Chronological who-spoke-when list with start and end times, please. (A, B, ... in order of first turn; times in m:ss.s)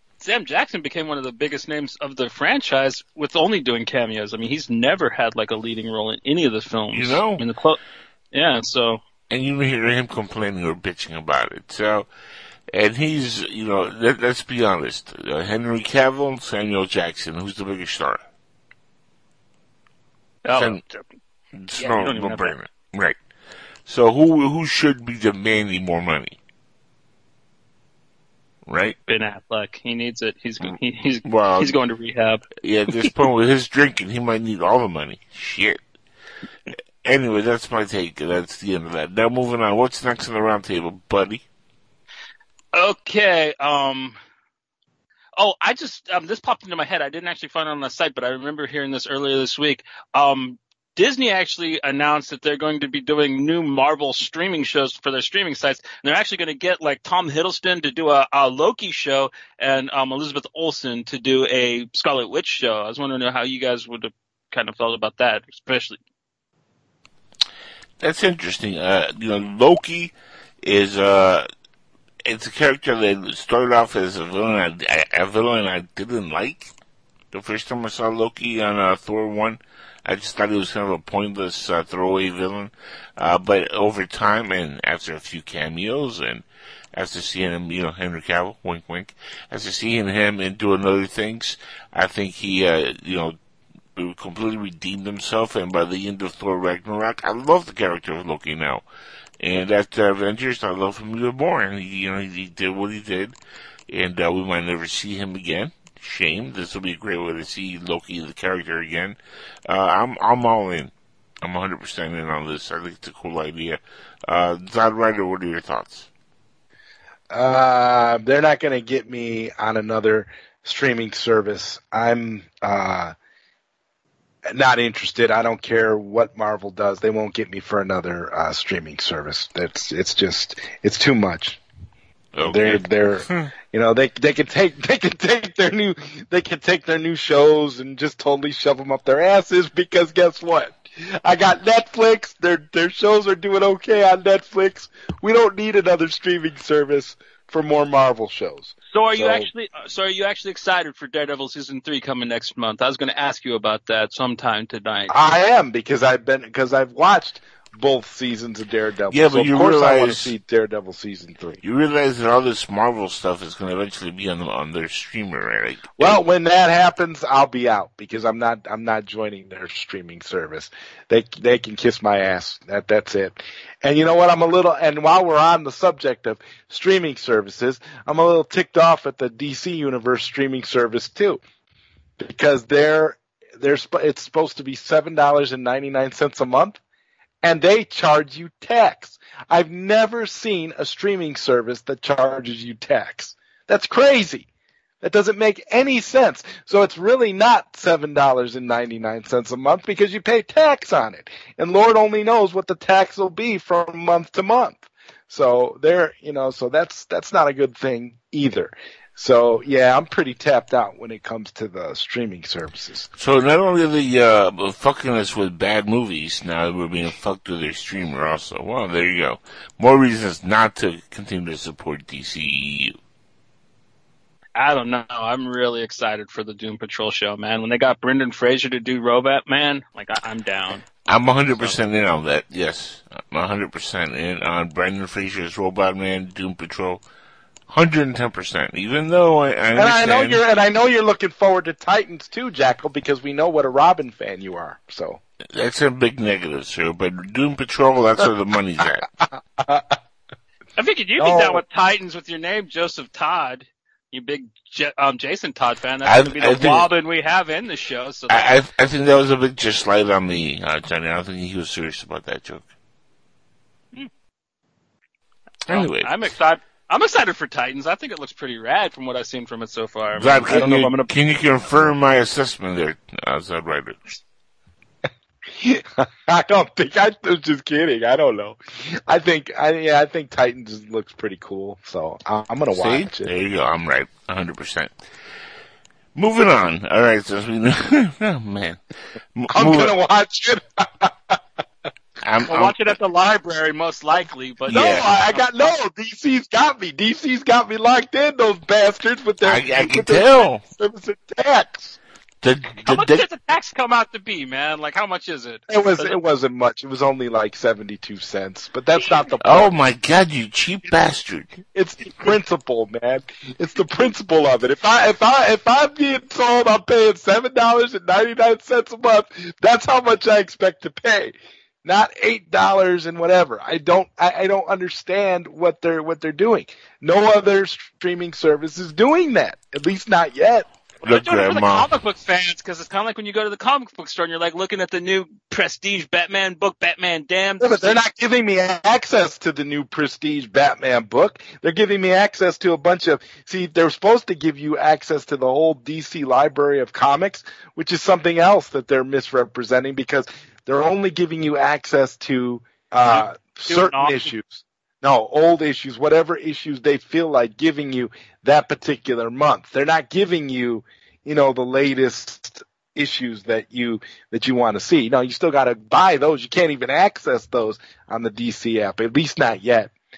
0:00.2-0:07.8 A
0:06.9-0:07.4 B
0:08.3-0:09.0 A
0:09.3-0:12.1 B
0:12.7-0:18.2 B
0:20.4-0:21.0 A
0:20.5-0:20.8 B
0:21.6-0:23.2 B
0:21.8-0:22.5 A
0:23.9-0:26.4 B
0:28.6-0:29.0 B
0:29.1-0:32.4 A
0:30.6-0:31.7 B
0:32.6-0:35.8 B
0:37.0-0:41.4 B
0:42.7-0:44.2 A
0:45.4-1:06.0 A
1:08.0-1:11.5 B
1:12.2-1:16.7 B
1:17.3-1:33.4 B
1:34.0-1:38.8 B
1:39.4-1:43.4 B
1:43.9-1:49.2 B
1:49.7-1:50.9 B
1:51.4-1:56.1 B
1:57.3-2:03.1 C
2:04.5-2:11.6 C
2:12.3-2:13.5 B
2:12.4-2:29.5 C
2:28.9-2:35.1 A
2:35.1-2:41.6 C
2:39.1-2:40.3 B
2:41.6-2:46.2 B
2:46.0-3:01.4 C
3:02.2-3:06.8 C
3:07.4-3:14.5 C
3:15.0-3:33.1 C
3:33.2-3:43.0 B
3:44.6-3:50.9 A
3:51.1-3:57.0 B
3:57.7-4:00.4 B
3:59.7-4:05.2 C
4:05.5-4:09.1 B
4:09.2-4:10.0 C
4:10.8-4:18.6 A
4:11.2-4:11.6 C
4:16.0-4:16.9 B
4:18.3-4:22.7 B
4:25.7-4:26.3 B
4:25.7-4:31.1 A
4:30.1-4:34.0 B
4:35.5-4:43.3 C
4:42.7-4:44.9 B
4:46.2-4:48.8 B
4:49.3-4:49.9 B
4:49.5-4:51.4 C
4:52.2-4:52.9 B
4:52.5-4:55.7 A
4:54.7-5:02.0 C
4:54.7-4:55.0 B
4:59.4-5:00.6 B
5:02.4-5:03.2 B
5:02.8-5:06.2 A
5:05.7-5:09.7 C
5:09.0-5:09.3 A
5:09.4-5:11.5 B
5:11.7-5:30.7 C
5:31.0-5:31.9 B
5:31.0-5:38.0 A
5:37.6-6:09.9 C
5:53.1-5:54.3 A